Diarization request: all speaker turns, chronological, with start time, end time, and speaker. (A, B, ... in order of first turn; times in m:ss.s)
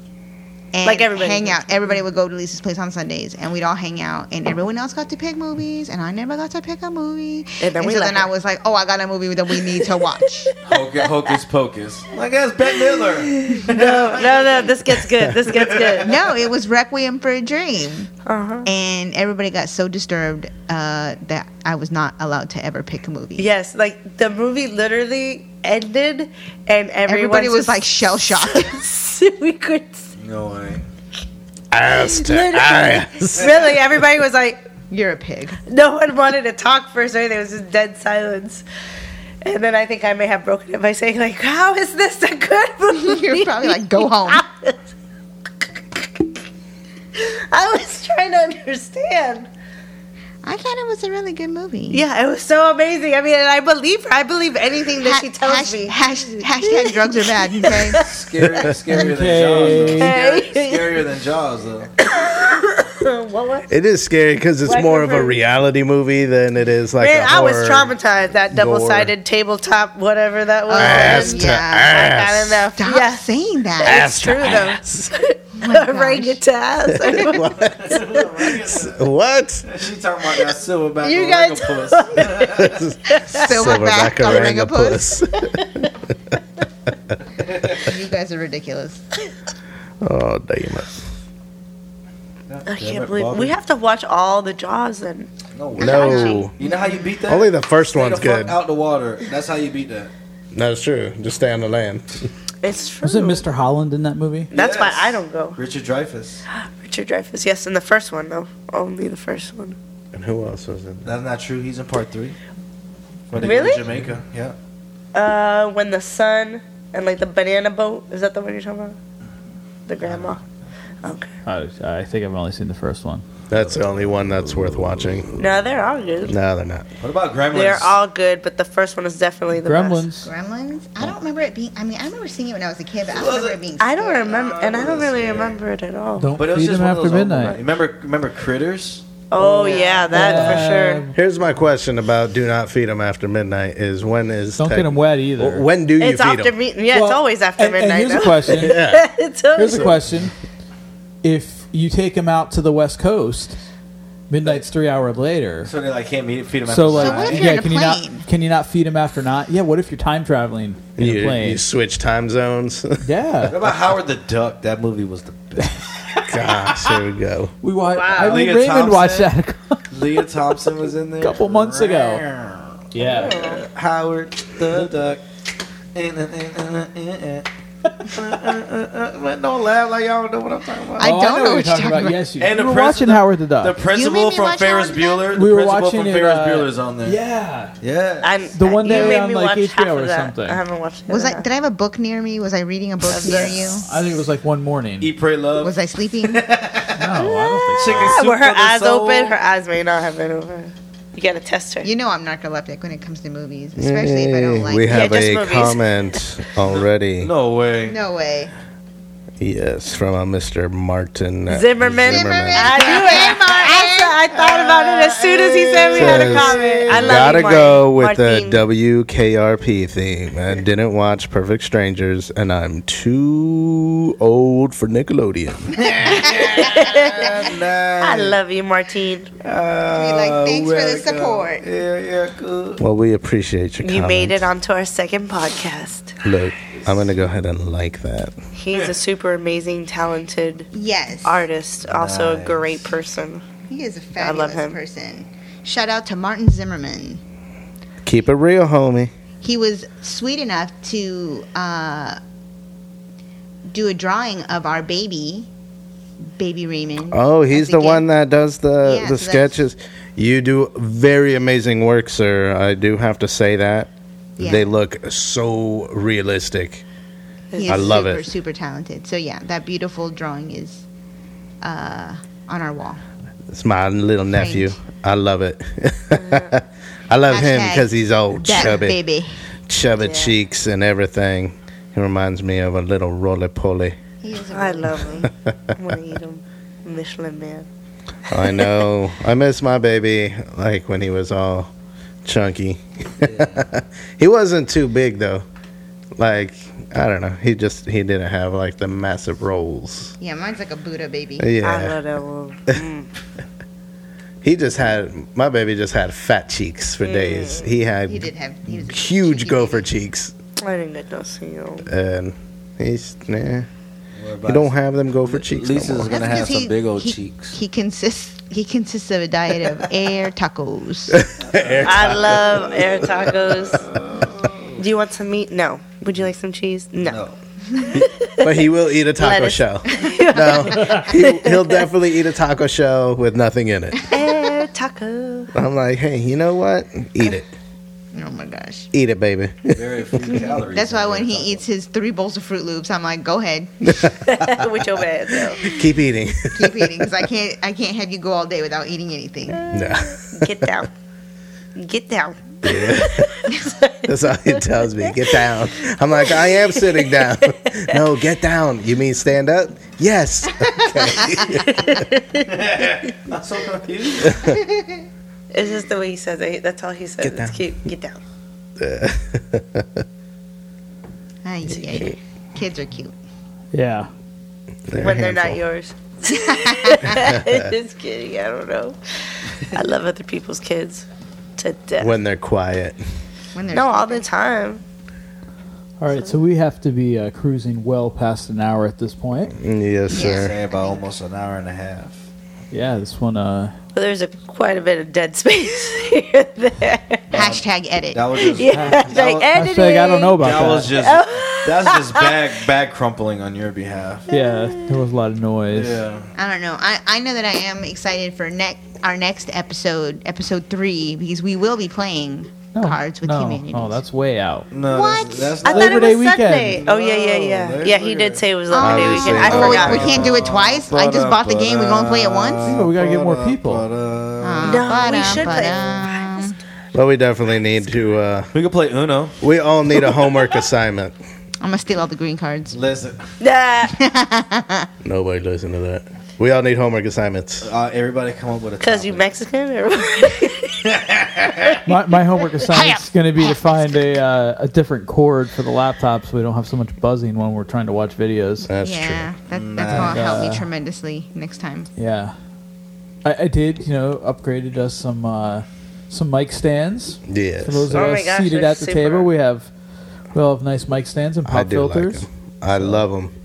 0:00.7-0:10.5 A
0:00.8-0:02.0 B
0:07.6-0:08.3 B
0:10.6-0:14.9 C
0:13.2-0:16.1 B
0:15.5-0:16.1 C
0:16.0-0:18.1 A
0:18.2-0:18.7 B
0:18.6-0:23.5 A
0:23.4-0:30.1 B
0:27.0-0:28.8 A
0:30.2-0:30.8 C
0:31.7-0:33.7 D
0:31.9-0:34.6 B
0:34.9-0:35.6 A
0:35.7-0:38.6 B
0:39.4-0:44.8 B
0:42.9-0:44.4 A
0:47.1-0:49.5 B
0:50.4-0:52.0 A
0:51.9-0:58.2 B
0:55.0-0:58.0 A
0:57.9-1:01.9 C
0:58.9-1:00.1 E
1:00.0-1:01.0 B
1:02.0-1:03.7 B
1:03.7-1:07.9 D
1:04.6-1:05.4 B
1:07.0-1:13.2 B
1:08.5-1:09.1 D
1:10.7-1:12.1 A
1:10.7-1:12.6 D
1:12.8-1:14.5 A
1:13.8-1:18.2 B
1:13.8-1:15.1 D
1:15.6-1:16.4 A
1:17.0-1:18.0 D
1:17.8-1:19.0 C
1:18.6-1:19.7 D
1:19.6-1:22.7 C
1:21.0-1:23.6 B
1:22.5-1:25.7 D
1:23.3-1:25.2 A
1:27.8-1:29.0 A
1:30.0-1:31.0 D
1:32.5-1:33.5 C
1:32.6-1:36.4 B
1:35.5-1:40.1 C
1:35.8-1:36.6 D
1:37.3-1:38.6 D
1:40.5-1:42.2 D
1:42.6-1:43.4 B
1:43.0-1:44.5 E
1:44.5-1:45.6 B
1:44.5-1:46.4 C
1:46.5-1:49.8 B
1:50.1-1:51.1 D
1:51.0-1:52.4 C
1:53.3-1:54.6 C
1:53.4-1:53.8 B
1:55.1-1:59.0 B
1:59.9-2:00.4 B
2:00.0-2:00.4 C
2:01.0-2:01.3 B
2:01.4-2:03.2 E
2:03.5-2:05.4 D
2:05.4-2:06.3 B
2:06.2-2:06.9 D
2:07.0-2:08.0 C
2:07.5-2:10.0 B
2:09.6-2:10.3 E
2:10.2-2:14.4 A
2:13.1-2:13.6 C
2:13.8-2:16.4 B
2:14.2-2:15.6 C
2:16.2-2:17.6 E
2:16.3-2:20.6 C
2:19.3-2:21.0 B
2:19.6-2:21.1 E
2:20.4-2:26.5 D
2:24.6-2:25.7 E
2:26.0-2:29.9 B
2:26.9-2:28.8 E
2:28.5-2:29.1 D
2:29.5-2:30.3 E
2:29.7-2:29.9 D
2:31.2-2:33.6 E
2:34.3-2:35.7 E
2:35.6-2:37.5 C
2:36.7-2:41.6 E
2:37.0-2:38.2 A
2:41.0-2:43.0 D
2:43.0-2:43.5 E
2:43.4-2:46.0 C
2:45.6-2:46.6 E
2:46.3-2:47.5 D
2:47.6-2:50.0 E
2:48.0-2:48.4 B
2:48.0-2:49.3 C
2:49.9-2:55.2 C
2:51.2-2:52.2 E
2:52.9-2:53.4 E
2:53.0-2:53.6 B
2:55.9-2:57.5 C
2:58.0-3:01.2 C
3:01.0-3:02.2 A
3:01.0-3:03.8 E
3:02.4-3:07.2 C
3:03.9-3:05.3 A
3:05.3-3:07.8 E
3:07.8-3:08.3 C
3:08.2-3:11.5 B
3:08.5-3:10.6 E
3:11.1-3:13.8 A
3:13.1-3:13.6 B
3:13.2-3:13.8 C
3:13.9-3:15.1 E
3:15.0-3:17.2 C
3:15.6-3:16.4 A
3:17.0-3:18.1 E
3:17.2-3:21.9 B
3:17.8-3:19.4 C
3:21.8-3:25.1 A
3:23.8-3:27.3 D
3:24.9-3:26.2 B
3:26.6-3:28.0 C
3:27.9-3:28.5 A
3:29.4-3:33.0 D
3:31.5-3:38.6 B
3:32.0-3:34.2 A
3:34.3-3:37.4 C
3:35.9-3:45.8 D
3:45.7-3:48.4 C
3:46.1-3:46.7 A
3:46.6-3:47.4 B
3:48.0-3:49.3 B
3:49.4-3:52.8 C
3:49.9-3:51.6 A
3:52.8-3:54.5 D
3:53.8-3:56.1 B
3:56.2-3:58.3 D
3:58.6-4:00.7 B
4:00.7-4:01.4 A
4:01.2-4:03.4 B
4:01.8-4:02.8 C
4:03.7-4:07.2 A
4:04.2-4:04.8 B
4:08.0-4:09.1 D
4:09.4-4:12.2 A
4:13.7-4:15.5 A
4:16.4-4:18.1 A
4:17.1-4:26.8 D
4:18.8-4:19.6 A
4:24.4-4:24.7 A
4:27.5-4:28.0 B
4:27.5-4:30.8 A
4:27.6-4:28.2 D
4:31.6-4:33.0 A
4:33.5-4:36.6 D
4:34.3-4:34.7 A
4:36.1-4:36.5 B
4:37.1-4:39.0 D
4:37.3-4:39.4 A
4:39.7-4:44.0 D
4:40.0-4:40.4 B
4:44.2-4:45.3 A
4:44.5-4:47.7 B
4:48.3-4:51.7 D
4:52.2-4:55.4 D
4:53.2-4:53.6 C
4:56.2-5:00.1 D
5:00.2-5:01.5 A
5:01.4-5:02.0 D
5:01.6-5:03.1 B
5:04.4-5:10.3 D
5:07.0-5:07.7 B
5:08.0-5:09.9 A
5:10.6-5:11.9 B
5:11.8-5:13.7 D
5:14.2-5:17.6 C
5:14.4-5:16.2 D
5:16.1-5:21.2 A
5:21.1-5:23.5 D
5:21.5-5:23.1 C
5:21.8-5:23.9 B
5:23.7-5:24.8 C
5:24.8-5:27.2 B
5:27.0-5:27.3 C
5:27.8-5:31.9 B
5:28.0-5:34.2 D
5:34.1-5:35.5 B
5:35.5-5:37.5 D
5:38.1-5:38.9 A
5:38.9-5:39.8 D
5:39.7-5:41.6 C
5:40.7-5:43.7 A
5:43.9-5:44.2 D
5:44.2-5:45.6 B
5:45.6-5:46.9 D
5:46.5-5:49.6 A
5:49.5-5:50.9 B
5:49.7-5:50.7 D
5:51.7-5:55.6 B
5:52.6-5:53.5 D
5:54.0-6:01.9 D
5:56.3-5:57.4 B
6:00.6-6:01.6 A
6:01.6-6:02.5 B
6:02.4-6:04.4 C
6:04.3-6:04.6 D
6:04.4-6:05.0 A
6:05.5-6:08.2 B
6:07.2-6:07.6 D
6:08.8-6:10.0 D
6:11.4-6:13.1 A
6:11.7-6:12.2 B
6:13.7-6:14.1 E
6:14.9-6:15.6 D
6:15.0-6:21.0 B
6:16.3-6:17.1 A
6:17.1-6:17.6 D
6:21.6-6:22.2 B
6:22.0-6:23.0 D
6:23.5-6:24.2 A
6:23.7-6:24.8 B
6:26.0-6:29.5 E
6:29.6-6:30.6 D
6:30.1-6:31.0 A
6:30.1-6:32.2 C
6:32.7-6:33.8 E
6:33.9-6:37.2 B
6:37.3-6:39.5 C
6:37.3-6:38.3 A
6:38.4-6:42.4 B
6:38.7-6:40.9 E
6:40.4-6:44.2 C
6:44.3-6:46.0 E
6:44.3-6:44.8 B
6:45.7-6:46.3 C
6:46.3-6:54.0 A
6:52.7-6:54.7 E
6:54.7-6:58.5 C
6:54.8-6:55.6 A
6:55.6-7:00.3 B
6:55.7-6:56.8 E
6:58.7-7:02.7 A
6:58.7-7:00.3 D
6:59.4-7:05.8 C
7:02.6-7:03.8 E
7:04.4-7:06.5 A
7:04.6-7:06.5 B
7:06.9-7:08.5 D
7:08.5-7:09.4 C
7:09.4-7:11.1 D
7:11.6-7:12.8 A
7:12.7-7:13.3 C
7:13.4-7:14.0 B
7:13.8-7:14.9 A
7:15.0-7:17.7 D
7:17.6-7:19.3 C
7:18.8-7:20.9 B
7:20.8-7:21.8 C
7:21.8-7:28.7 E
7:22.8-7:23.8 A
7:28.7-7:29.3 D
7:28.8-7:31.9 A
7:29.5-7:30.3 C
7:29.9-7:30.7 E
7:32.0-7:32.4 E
7:33.2-7:39.7 E
7:37.3-7:38.1 D
7:37.9-7:39.3 B
7:40.3-7:42.2 E
7:41.4-7:43.3 D
7:42.8-7:43.0 E